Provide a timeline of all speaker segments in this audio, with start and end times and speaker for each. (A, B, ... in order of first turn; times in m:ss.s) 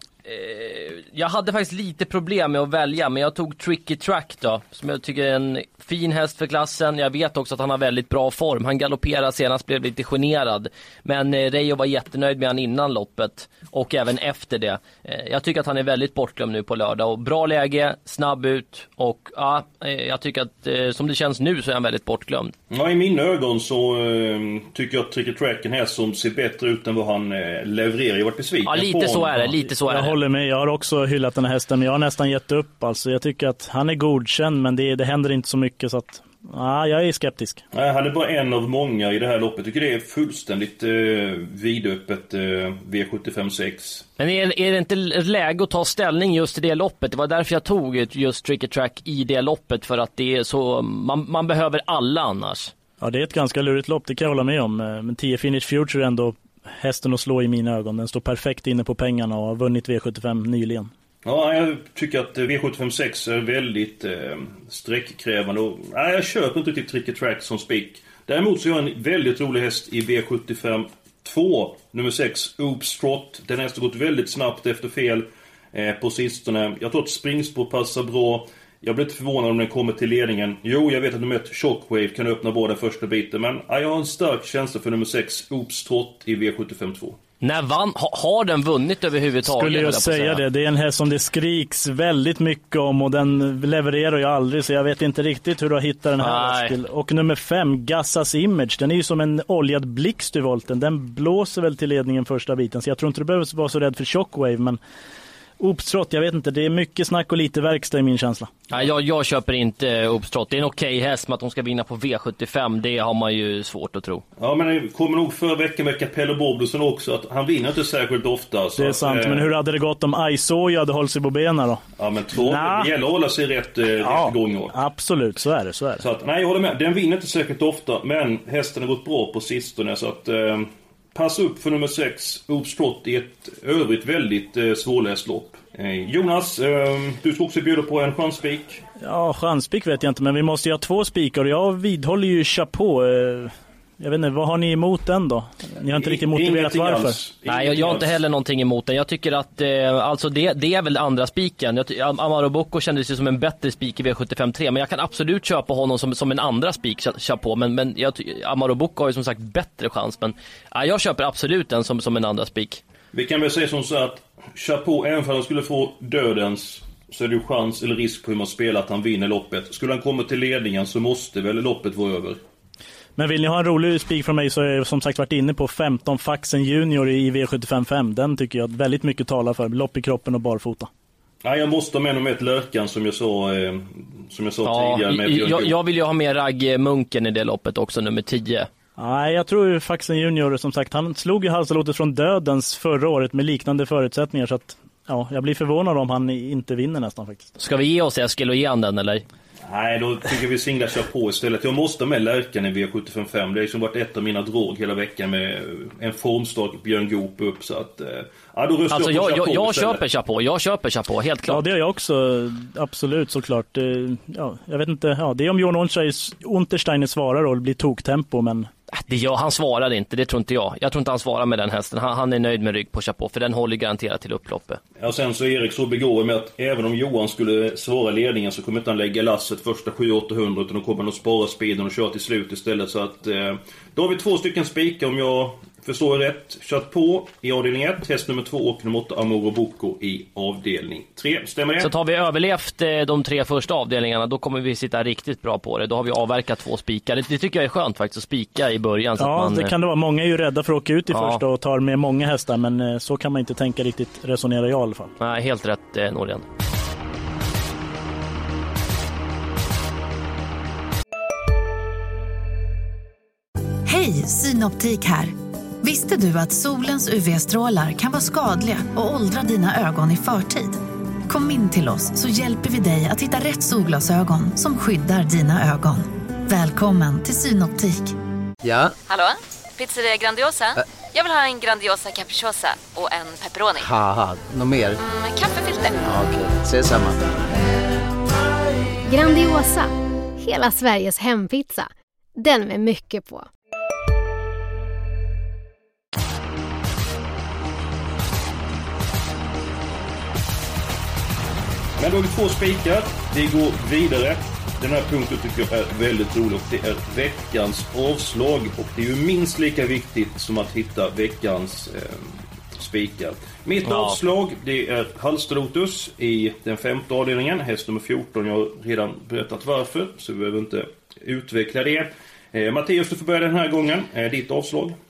0:00.2-0:22.5 A
0:22.7-0:29.6 B
0:28.6-0:30.1 A
0:29.8-0:37.6 C
0:37.7-0:44.0 B
0:44.2-0:52.7 A
0:53.0-1:00.9 C
1:01.2-1:27.2 B
1:27.4-1:30.4 A
1:29.5-1:44.8 C
1:36.2-1:36.8 A
1:45.6-1:48.5 C
1:48.7-1:54.2 A
1:54.4-1:59.5 B
1:58.8-2:01.8 C
2:02.0-2:04.7 B
2:02.3-2:02.9 C
2:04.0-2:06.0 C
2:06.0-2:18.8 B
2:19.0-2:27.2 C
2:26.0-2:28.1 B
2:27.5-2:42.8 A
2:43.1-2:52.4 B
2:53.2-3:00.9 C
3:01.4-3:05.7 B
3:04.6-3:08.7 A
3:09.0-3:17.5 C
3:17.6-3:19.2 A
3:19.6-3:30.0 B
3:28.9-3:31.6 A
3:31.5-3:38.7 C
3:38.9-3:44.8 A
3:45.0-4:01.9 B
4:01.8-4:09.7 A
4:09.2-4:15.1 C
4:11.1-4:11.4 A
4:15.2-4:16.4 A
4:23.8-4:38.1 D
4:38.6-4:38.9 E
4:39.1-4:43.9 F
4:43.8-4:45.0 E
4:45.0-4:46.1 F
4:46.0-4:47.2 E
4:49.1-4:49.9 G
4:50.4-4:53.4 G
5:02.0-5:25.0 B
5:13.8-5:14.2 A